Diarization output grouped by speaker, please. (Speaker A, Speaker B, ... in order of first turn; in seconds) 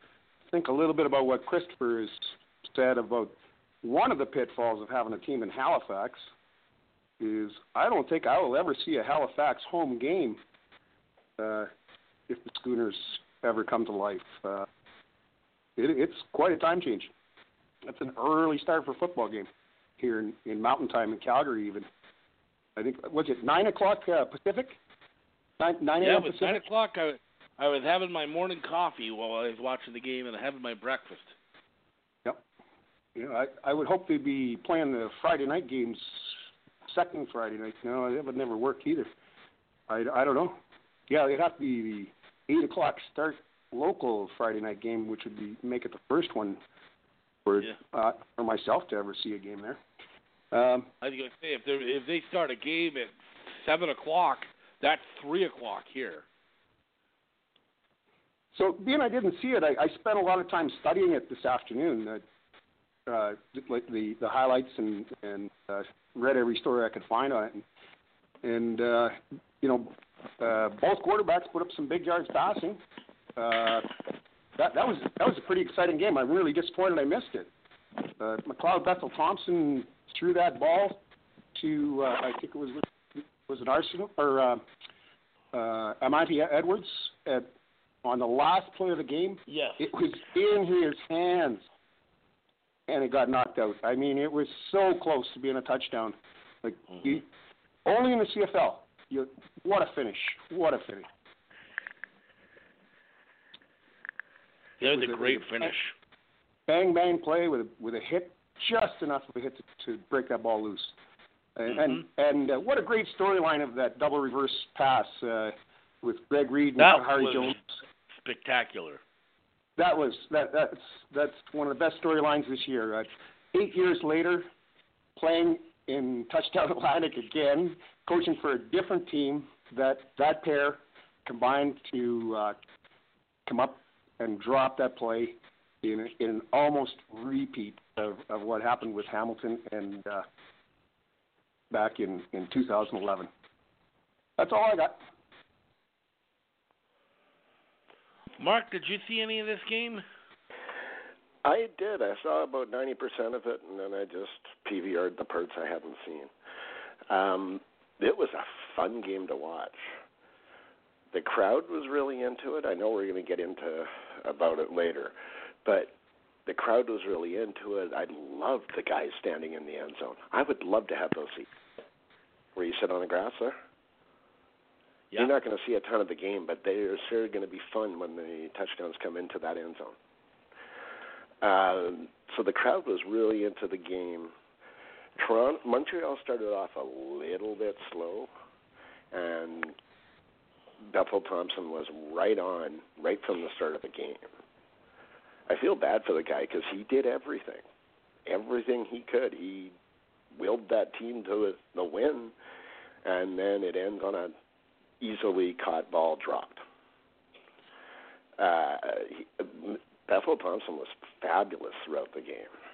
Speaker A: 0.5-6.3, 7.2-10.4, 11.4-11.7, 12.3-14.7, 15.8-17.1, 17.9-21.9, 22.8-24.8, 25.6-26.6, 33.1-39.1, 39.9-46.6, 47.5-49.8, 50.5-50.9, 58.5-62.2, 63.1-67.6, 68.4-72.8, 73.4-73.9, 74.6-77.5, 78.2-81.0, 81.5-84.6, 85.5-87.5, 88.0-91.7, 92.9-97.3, 97.8-101.1, 104.9-105.7, 106.7-111.0, 111.6-117.8, 119.8-124.5, 125.2-132.6, 133.4-140.2, 141.7-143.3, 144.4-145.0
Speaker B: 26.0-31.4, 51.0-56.3, 89.5-89.9, 104.8-106.0, 111.7-112.0, 116.8-117.6, 118.1-119.0, 148.4-150.0
Speaker C: 151.4-156.3, 157.1-159.8, 161.1-165.1, 165.6-165.9, 166.4-171.5, 172.6-173.6, 175.2-179.9, 181.4-184.3, 185.2-188.3, 189.1-189.8, 190.8-194.2, 195.5-197.6, 198.3-199.7, 200.3-202.3, 203.0-204.3, 205.0-206.6, 208.4-212.5